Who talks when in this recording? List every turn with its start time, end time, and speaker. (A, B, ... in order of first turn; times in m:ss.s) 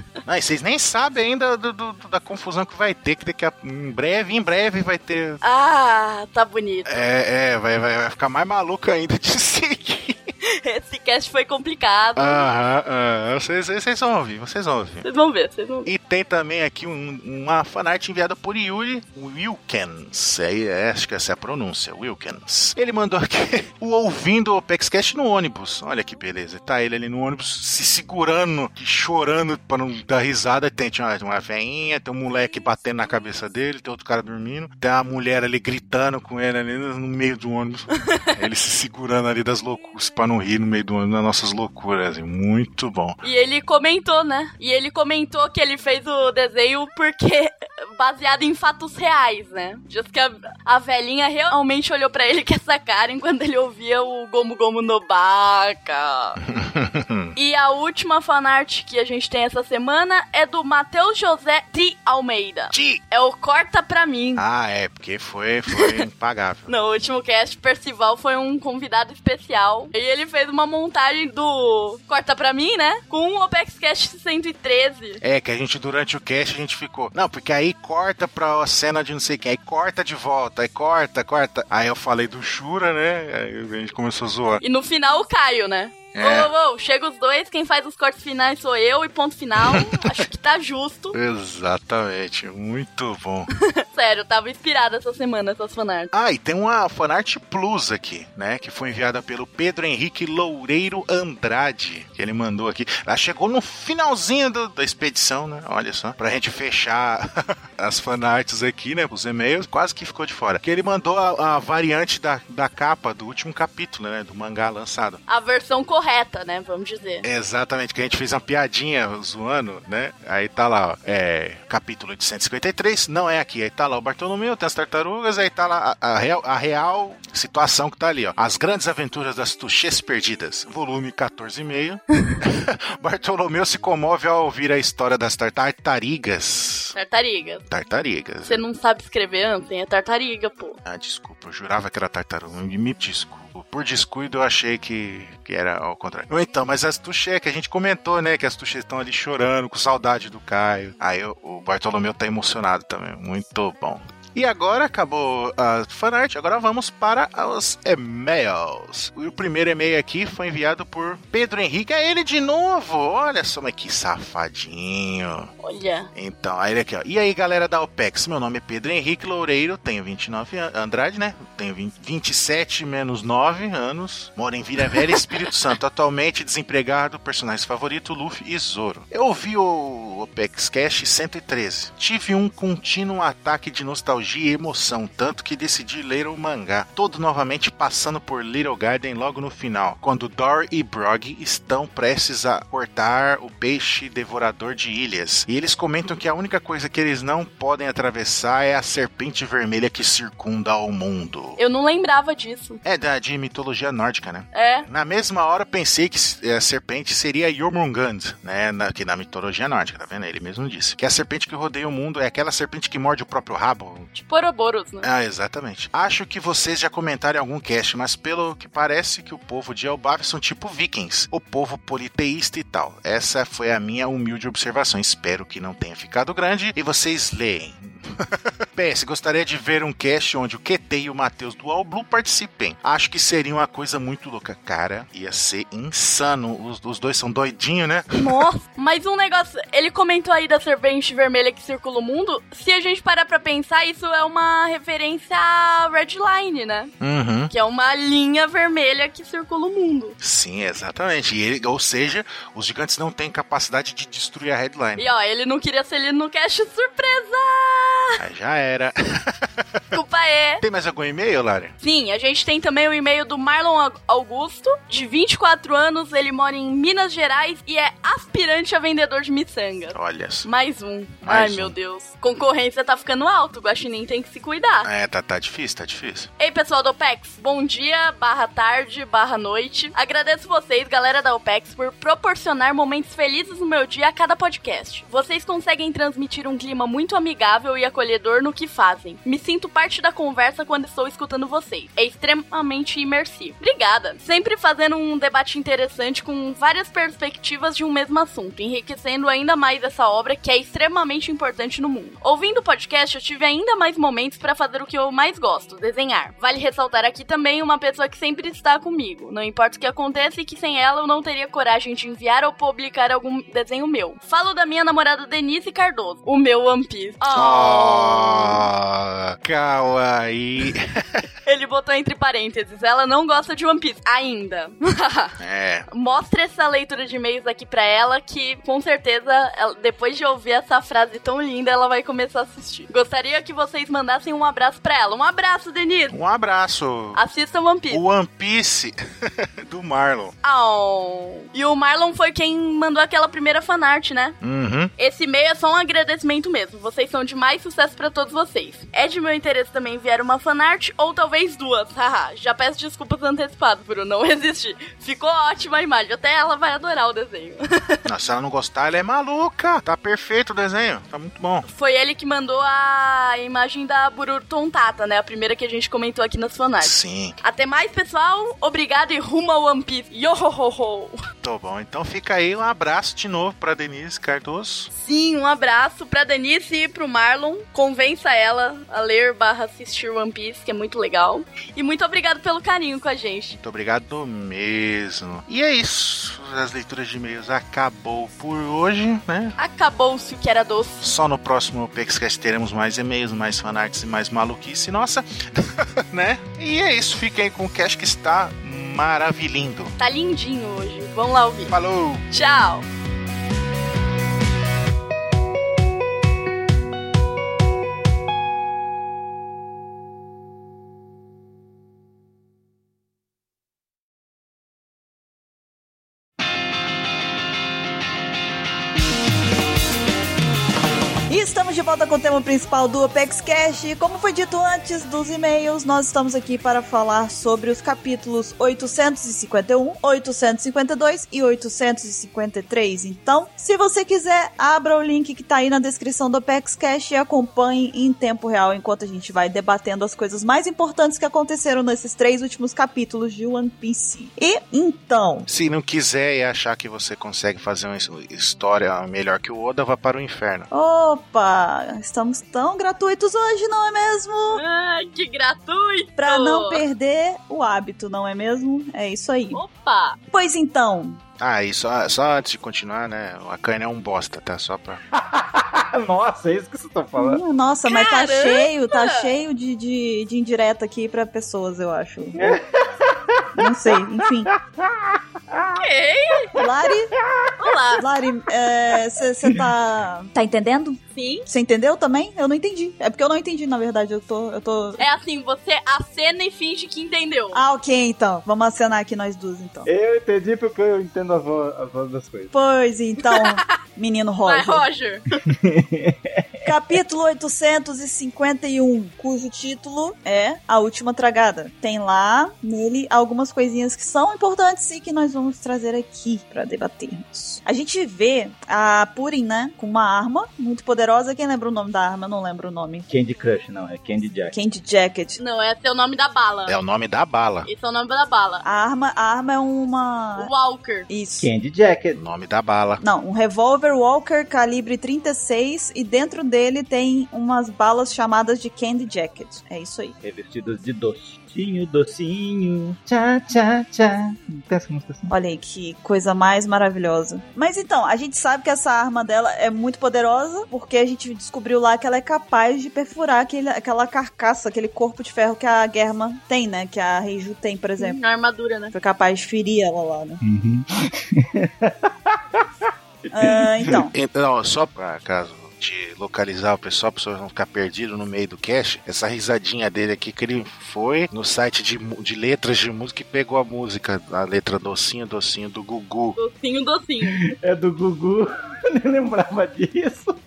0:00.2-0:05.4 A
0:05.4-0:07.1 B
0:06.8-0:10.2 A
0:10.5-0:12.5 B
0:12.2-0:15.0 A
0:15.0-0:15.9 B
0:15.8-0:43.2 A
0:37.9-0:38.3 B
0:43.2-0:56.4 B
0:56.4-0:57.3 A
0:57.4-1:04.4 B
1:02.7-1:03.0 A
1:04.4-1:06.7 A
1:05.7-1:06.0 B
1:06.7-1:15.2 B
1:15.2-1:24.6 A
1:24.6-1:31.2 B
1:26.2-1:26.5 A
1:29.6-1:30.0 A
1:31.1-1:33.5 A
1:33.7-1:36.1 B
1:36.1-1:55.2 A
1:55.3-1:57.2 B
1:57.2-2:16.9 A
2:16.9-2:17.6 B
2:17.7-2:18.6 A
2:18.4-2:20.8 B
2:20.8-2:45.5 A
2:45.6-2:46.1 B
2:46.1-3:21.6 A
2:54.9-2:55.5 B
3:21.6-3:22.8 B
3:22.8-3:34.1 A
3:24.5-3:24.9 B
3:34.1-3:35.1 B
3:35.0-3:58.4 A
3:58.1-4:06.9 B
4:07.0-4:07.5 A
4:07.5-4:10.2 B
4:10.2-4:15.0 A
4:15.0-4:18.2 B
4:18.2-4:19.5 A
4:19.9-4:20.6 B
4:20.6-4:21.7 A
4:21.8-4:34.9 B
4:29.9-4:30.5 A
4:31.2-4:31.7 A
4:34.8-4:36.3 A
4:36.4-5:18.7 B
5:17.3-5:21.2 A
5:21.4-5:25.4 B
5:25.4-5:25.9 A
5:25.9-5:36.2 B
5:36.1-5:37.2 A
5:37.1-5:38.0 B
5:37.9-5:40.3 A
5:40.4-5:44.4 B
5:44.4-5:44.9 A
5:45.0-5:58.0 B
5:58.0-6:01.6 A
6:01.6-6:11.2 B
6:06.8-6:07.4 A
6:11.4-6:14.9 A
6:14.9-6:23.6 B
6:23.6-6:29.5 A
6:29.6-6:31.0 B
6:31.0-6:39.9 A
6:40.0-6:41.7 B
6:41.7-6:42.2 A
6:42.3-6:42.8 B
7:01.3-7:25.5 C
7:25.5-7:30.7 A
7:30.7-7:34.6 C
7:34.5-7:36.8 B
7:36.2-7:39.6 C
7:39.5-7:40.2 B
7:40.3-7:41.2 C
7:41.4-7:45.0 A
7:45.1-7:47.4 D
7:47.2-7:52.6 C
7:47.8-7:49.3 B
7:52.4-7:55.8 D
7:53.6-7:54.5 C
7:55.7-7:56.6 B
7:56.5-7:57.5 D
7:56.5-7:57.1 C
7:57.6-7:58.0 B
7:58.0-8:05.0 C
8:01.1-8:01.5 B
8:05.0-8:07.6 B
8:07.5-8:09.9 C
8:09.8-8:12.5 D
8:12.5-8:14.8 C
8:13.2-8:13.7 B
8:14.4-8:15.4 B
8:15.4-8:16.8 D
8:16.6-8:33.1 C
8:33.1-8:34.6 D
8:34.5-8:35.4 C
8:35.4-8:36.8 B
8:36.7-8:37.7 A
8:37.6-8:38.6 B
8:38.6-8:40.5 C
8:40.4-8:41.1 B
8:41.1-8:41.5 C
8:41.4-8:42.2 D
8:42.1-8:43.0 A
8:43.0-8:50.2 C
8:50.2-8:55.3 D
8:55.3-9:08.2 C
9:08.0-9:08.9 B
9:08.9-9:10.4 C
9:10.4-9:14.1 D
9:13.3-9:14.1 C
9:14.1-9:26.4 A
9:26.4-9:27.4 B
9:27.2-9:30.3 D